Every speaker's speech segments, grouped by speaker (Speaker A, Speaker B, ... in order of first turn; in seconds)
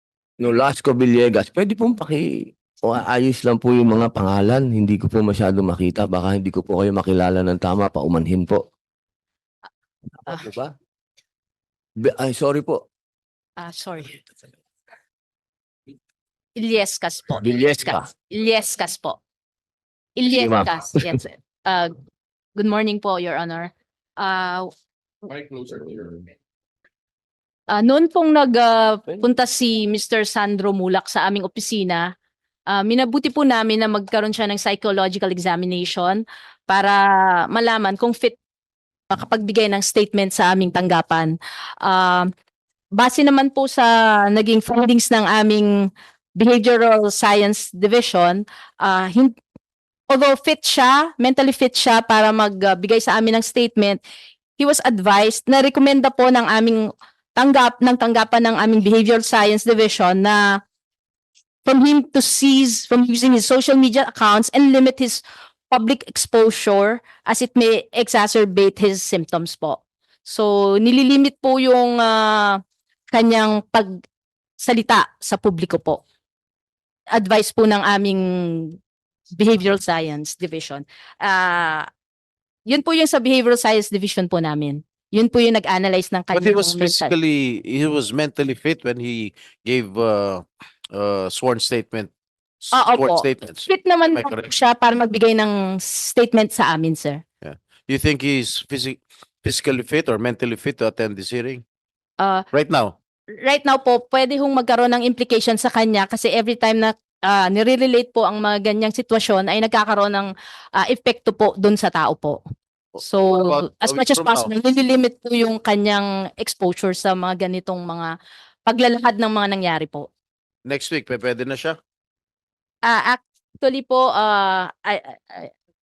Speaker A: 0.4-8.6, 10.3-10.7, 12.0-12.8, 17.4-18.1, 20.3-21.1
Speaker B: 13.6-14.2, 16.6-19.2, 20.2-21.9, 22.6-24.7, 27.7-32.1, 32.7-38.3, 39.1-42.3, 42.9-49.3, 50.1-54.0, 54.6-60.6, 61.6-72.6, 73.1-74.0, 74.6-76.0, 77.1-78.8, 79.3-81.9, 82.7-87.1, 92.7-97.2, 102.2-102.5, 103.3-112.4, 113.0-118.1, 118.7-120.1, 122.8-125.5
Speaker C: 86.3-92.1, 92.6-94.4, 97.4-101.6, 102.5-102.9, 112.9-114.5, 120.7-121.8